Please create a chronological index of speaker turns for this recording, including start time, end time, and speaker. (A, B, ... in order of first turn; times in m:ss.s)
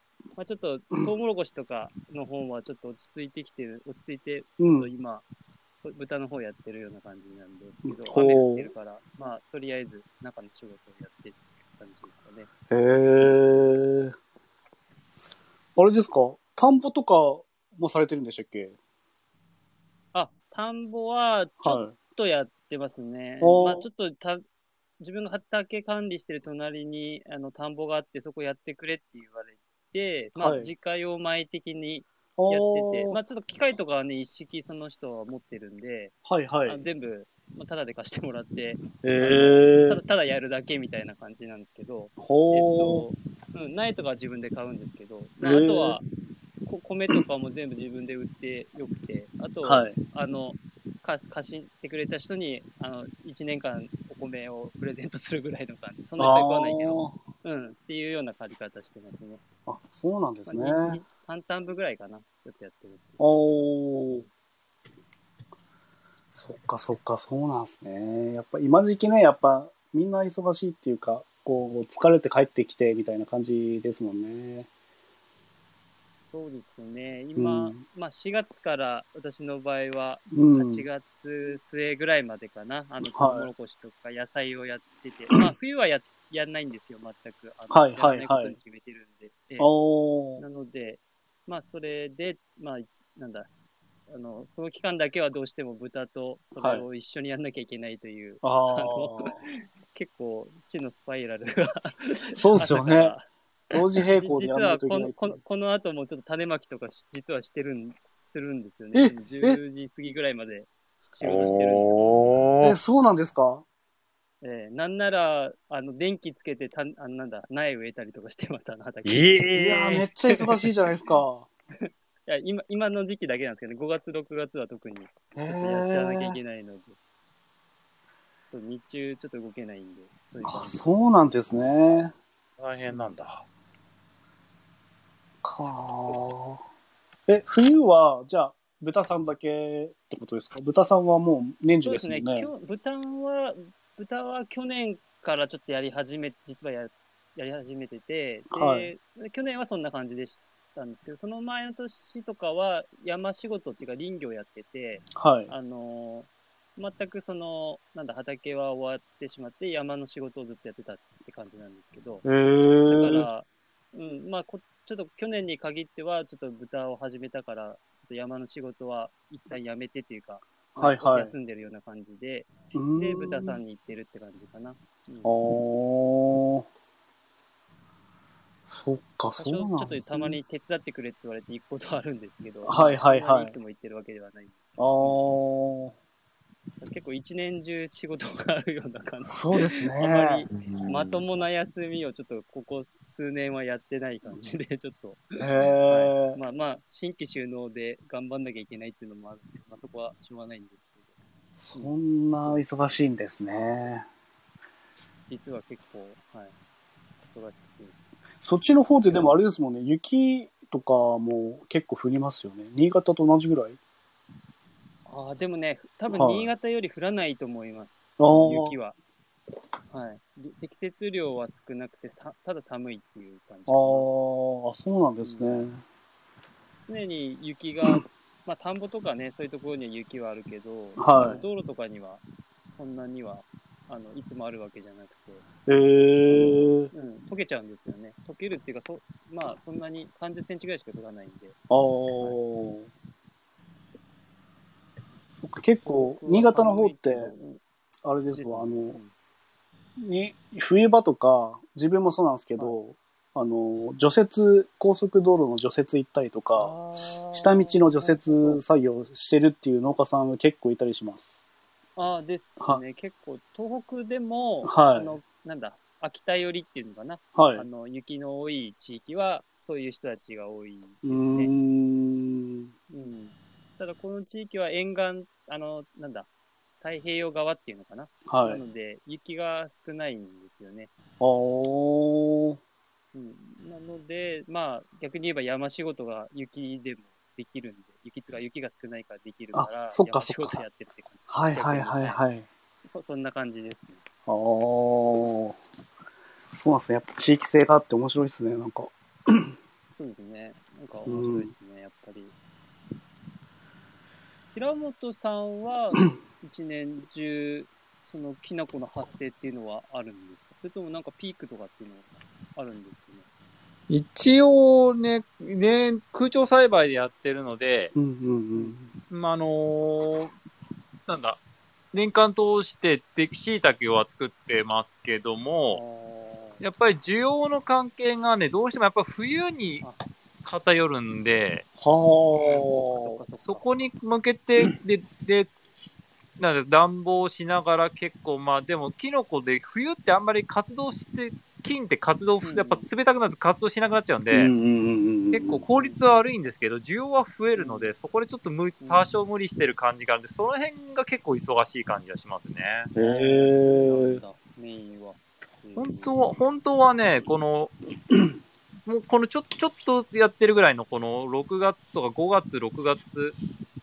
0:00.4-0:05.2 A
0:04.6-0:04.9 B
0:05.8-0:12.5 A
0:07.8-0:08.7 B
0:12.7-0:14.1 B
0:15.8-0:18.8 B
0:20.1-0:24.4 A
0:21.6-0:22.0 B
0:23.4-0:23.9 B
0:25.0-0:36.2 A
0:30.4-0:30.7 B
0:32.4-0:33.2 B
0:36.2-0:36.8 B
0:36.7-0:46.0 A
0:39.0-0:40.0 B
0:42.2-0:43.0 B
0:45.4-0:46.0 B
0:46.7-0:59.4 A
0:49.6-0:50.0 B
0:56.2-0:57.2 B
0:59.7-1:01.0 B
1:00.5-1:03.2 A
1:03.2-1:04.3 B
1:06.4-1:14.7 B
1:16.2-1:29.7 A
1:17.4-1:17.8 B
1:20.3-1:20.9 B
1:23.0-1:23.5 B
1:27.7-1:28.6 B
1:29.6-1:30.4 B
1:30.4-1:33.5 A
1:34.1-1:43.3 A
1:36.6-1:36.8 B
1:38.4-1:39.4 B
1:42.3-1:43.1 B
1:43.7-1:45.4 B
1:44.1-1:52.5 A
1:48.9-1:49.6 B
1:51.2-1:52.8 C
1:52.6-1:53.6 B
1:54.4-1:59.5 A
1:59.0-2:00.1 C
1:59.6-2:01.5 B
2:01.8-2:07.0 A
2:05.4-2:06.4 B
2:08.5-2:10.8 A
2:10.4-2:12.1 B
2:12.6-2:13.4 C
2:15.4-2:16.6 B
2:17.3-2:22.5 B
2:21.8-2:42.2 A
2:28.5-2:28.9 B
2:35.2-2:35.5 B
2:42.2-2:43.3 B
2:42.9-2:55.3 A
2:50.8-2:51.3 B
2:52.8-2:53.6 B
2:55.2-2:56.7 B
2:58.7-3:00.4 B
2:59.4-3:05.2 A
3:02.7-3:03.6 B
3:04.8-3:06.0 B
3:06.8-3:21.1 A
3:09.3-3:10.5 B
3:10.5-3:11.2 C
3:15.4-3:16.4 B
3:21.6-3:24.1 B
3:21.8-3:23.0 A
3:25.3-3:26.5 A
3:27.3-3:28.0 A
3:28.4-3:33.8 B
3:35.1-3:39.0 A
3:36.1-3:36.5 B
3:38.2-3:38.8 B
3:39.9-3:44.1 A
3:43.7-3:45.8 B
3:45.2-3:45.7 A
3:46.8-3:52.2 A
3:51.0-3:51.4 B
3:52.8-3:55.4 A
3:55.7-3:56.9 B
3:56.3-4:01.6 A
4:01.7-4:02.9 B
4:05.4-4:07.3 B
4:05.8-4:07.6 A
4:08.0-4:09.0 B
4:08.4-4:09.1 A
4:10.0-4:16.7 B
4:16.6-4:18.6 A
4:17.3-4:21.3 B
4:22.0-4:31.5 A
4:24.6-4:25.1 B
4:27.4-4:27.7 B
4:31.0-4:32.7 B
4:32.9-4:36.3 A
4:36.8-4:40.9 A
4:38.3-4:38.6 B
4:41.2-4:42.6 B
4:43.1-4:52.2 A
4:49.5-4:50.6 B
4:51.3-4:52.5 B
4:52.8-4:54.0 A
4:54.3-4:55.6 B
4:56.5-4:59.5 B
4:59.9-5:02.3 A
5:01.1-5:01.5 B
5:04.5-5:13.3 A
5:13.9-5:17.9 C
5:18.0-5:18.9 B
5:19.1-5:20.4 C
5:21.1-5:21.4 C
5:21.9-5:25.8 C
5:25.7-5:26.6 A
5:26.6-5:29.8 C
5:30.4-5:31.6 C
5:31.8-5:33.2 B
5:32.5-5:33.7 A
5:33.4-5:35.5 C
5:36.4-5:44.5 C
5:42.4-5:42.8 A
5:44.3-5:45.6 B
5:45.3-5:52.9 C
5:45.8-5:46.2 A
5:47.6-5:47.9 A
5:53.0-5:54.2 B
5:53.0-5:56.3 A
5:55.8-5:57.7 C
5:58.9-6:03.4 C